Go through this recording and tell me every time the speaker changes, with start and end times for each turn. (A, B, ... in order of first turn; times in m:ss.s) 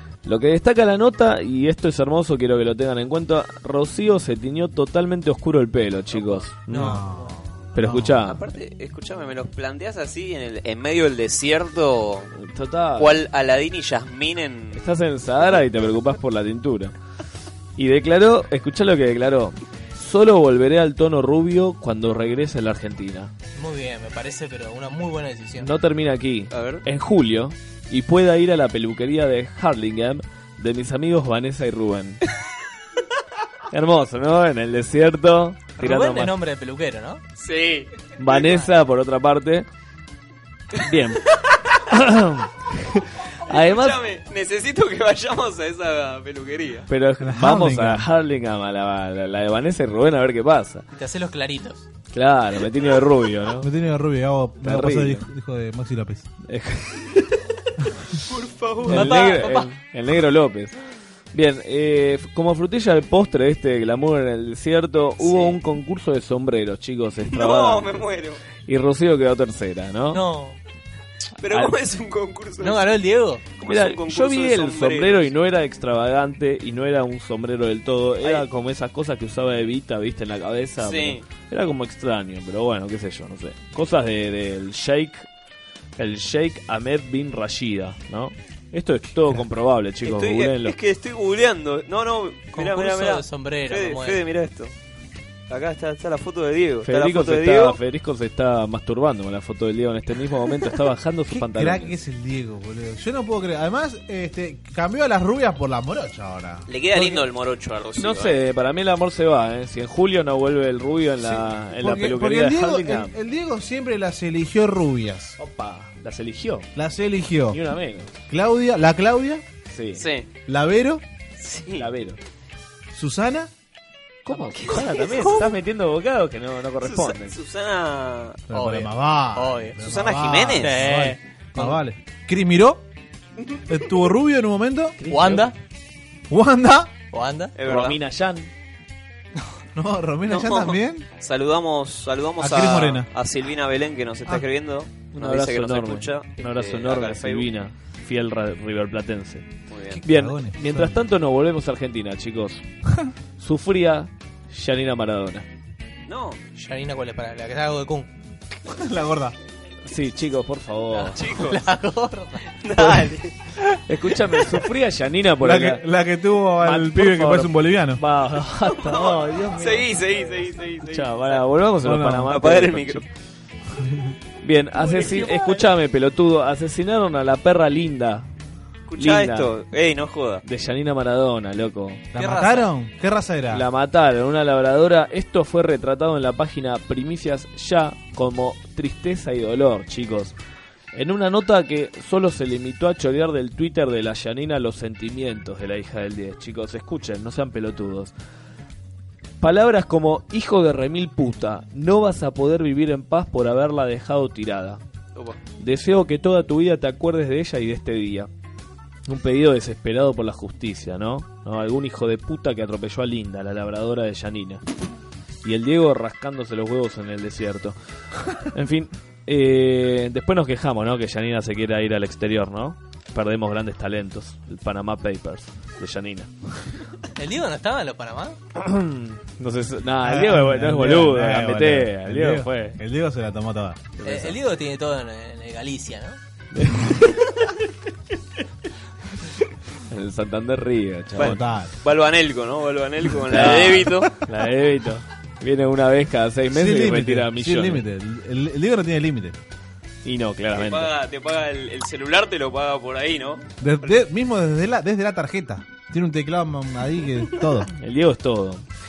0:00.2-0:07.0 A
0:06.7-0:07.4 B
0:06.7-0:08.2 C
0:07.7-0:08.4 A
0:08.2-0:12.3 D
0:12.3-0:13.2 A
0:13.0-0:14.8 D
0:14.7-0:16.9 A
0:17.8-0:23.3 A
0:23.6-0:25.7 B
0:25.6-0:32.2 A
0:26.5-0:26.8 D
0:33.7-0:36.4 A
0:35.8-0:37.2 B
0:37.4-0:37.9 D
0:38.2-0:39.7 A
0:40.8-0:41.2 A
0:41.8-0:44.0 A
0:43.5-0:46.9 D
0:46.9-0:50.8 A
0:47.2-0:48.1 C
0:50.9-0:51.8 B
0:52.1-0:53.7 A
0:53.6-0:56.3 C
0:54.6-0:55.2 A
0:56.4-0:57.2 A
0:58.2-0:59.4 D
0:58.8-1:00.7 A
0:58.8-0:59.7 B
1:01.3-1:08.0 A
1:05.2-1:05.6 D
1:07.3-1:08.4 D
1:08.6-1:10.2 A
1:10.1-1:10.6 B
1:11.4-1:12.9 D
1:11.4-1:11.8 A
1:12.6-1:13.4 B
1:13.6-1:15.3 D
1:13.6-1:25.3 A
1:18.2-1:18.5 D
1:20.8-1:21.2 D
1:26.0-1:30.8 A
1:30.0-1:34.7 D
1:32.5-1:34.2 B
1:35.5-1:37.8 D
1:36.8-1:42.0 A
1:41.3-1:46.6 C
1:46.7-1:48.4 D
1:48.0-1:53.1 A
1:51.2-1:55.4 C
1:55.4-1:56.7 A
1:56.7-1:57.6 C
1:57.5-1:58.1 A
1:58.3-1:59.4 C
1:59.7-2:00.0 A
1:59.9-2:00.3 D
2:00.5-2:01.0 C
2:01.4-2:01.9 D
2:01.7-2:02.2 A
2:02.9-2:03.5 C
2:04.2-2:07.4 A
2:04.3-2:05.4 D
2:06.8-2:08.4 D
2:08.5-2:12.8 C
2:08.5-2:09.8 B
2:09.8-2:10.8 D
2:10.5-2:11.8 B
2:13.7-2:15.0 C
2:15.0-2:15.5 A
2:15.1-2:15.5 B
2:16.3-2:16.9 C
2:17.1-2:17.5 B
2:17.6-2:18.0 D
2:17.6-2:18.5 A
2:19.7-2:21.0 C
2:20.3-2:27.5 D
2:22.4-2:23.1 C
2:25.1-2:29.5 A
2:29.7-2:30.0 D
2:29.9-2:31.0 C
2:30.0-2:32.6 A
2:33.4-2:35.4 A
2:36.1-2:36.4 D
2:36.6-2:38.1 B
2:38.7-2:39.3 C
2:39.8-2:41.4 A
2:41.0-2:41.6 D
2:41.3-2:42.6 B
2:42.6-2:43.3 D
2:43.9-2:45.8 A
2:45.4-2:48.0 C
2:46.6-2:49.9 A
2:48.6-2:51.4 D
2:50.8-2:53.0 A
2:51.8-2:52.3 C
2:52.3-2:53.0 D
2:54.4-2:58.2 A
2:54.9-2:55.4 D
2:58.9-3:00.4 D
2:59.0-2:59.6 A
3:00.4-3:02.0 A
3:02.1-3:03.6 C
3:02.1-3:02.7 B
3:03.5-3:10.3 A
3:10.9-3:18.1 A
3:19.4-3:24.8 A
3:25.1-3:25.4 D
3:25.6-3:28.3 A
3:29.1-3:34.6 A
3:35.4-3:37.8 A
3:38.5-3:46.3 A
3:47.2-3:48.4 B
3:48.6-3:52.8 A
3:50.0-3:53.8 C
3:54.0-3:54.4 A
3:54.0-3:56.2 B
3:56.5-3:57.3 A
3:59.9-4:01.4 A
4:01.2-4:01.7 C
4:01.2-4:04.2 D
4:03.3-4:07.8 A
4:06.5-4:09.4 C
4:10.0-4:10.9 A
4:10.5-4:13.4 D
4:13.6-4:17.7 C
4:17.7-4:18.6 A